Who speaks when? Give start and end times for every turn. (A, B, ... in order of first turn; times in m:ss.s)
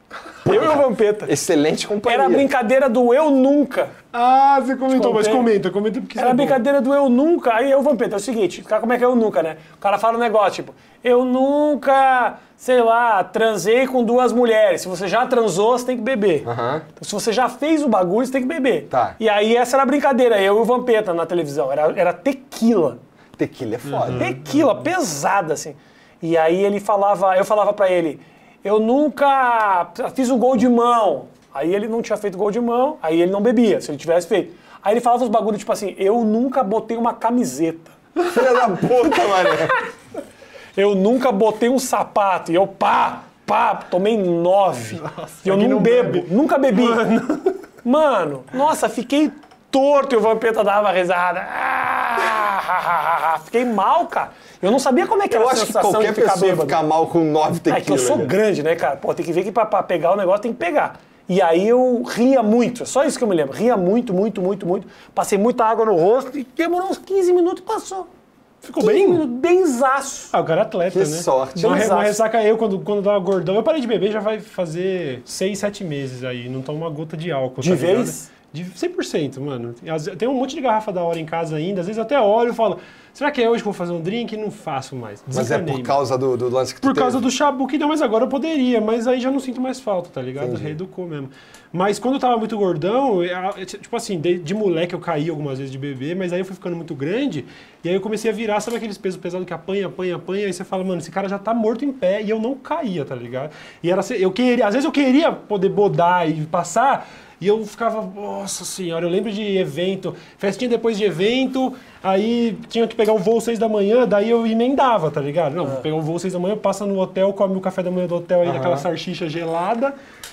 0:00.4-0:01.3 A
0:00.4-0:02.5 B
0:02.0-0:04.0 A
0:04.1-0:06.6 C
0:04.9-0:05.5 A
0:06.2-0:23.0 A
0:16.4-0:16.8 B
0:18.9-0:19.2 B
0:23.4-0:24.3 B
0:23.8-0:24.8 C
0:24.1-0:37.9 A
0:38.2-0:39.5 C
0:38.3-0:39.8 B
0:40.8-0:47.0 A
0:44.9-0:47.6 C
0:47.8-0:56.8 A
0:55.3-0:58.4 B
0:57.6-1:08.1 A
1:08.6-1:09.3 C
1:08.8-1:10.3 A
1:10.3-1:26.0 C
1:10.9-1:12.0 B
1:11.5-1:12.2 A
1:17.6-1:18.3 A
1:25.3-1:27.2 B
1:26.8-1:59.9 C
1:30.4-1:30.8 B
1:58.4-1:58.9 B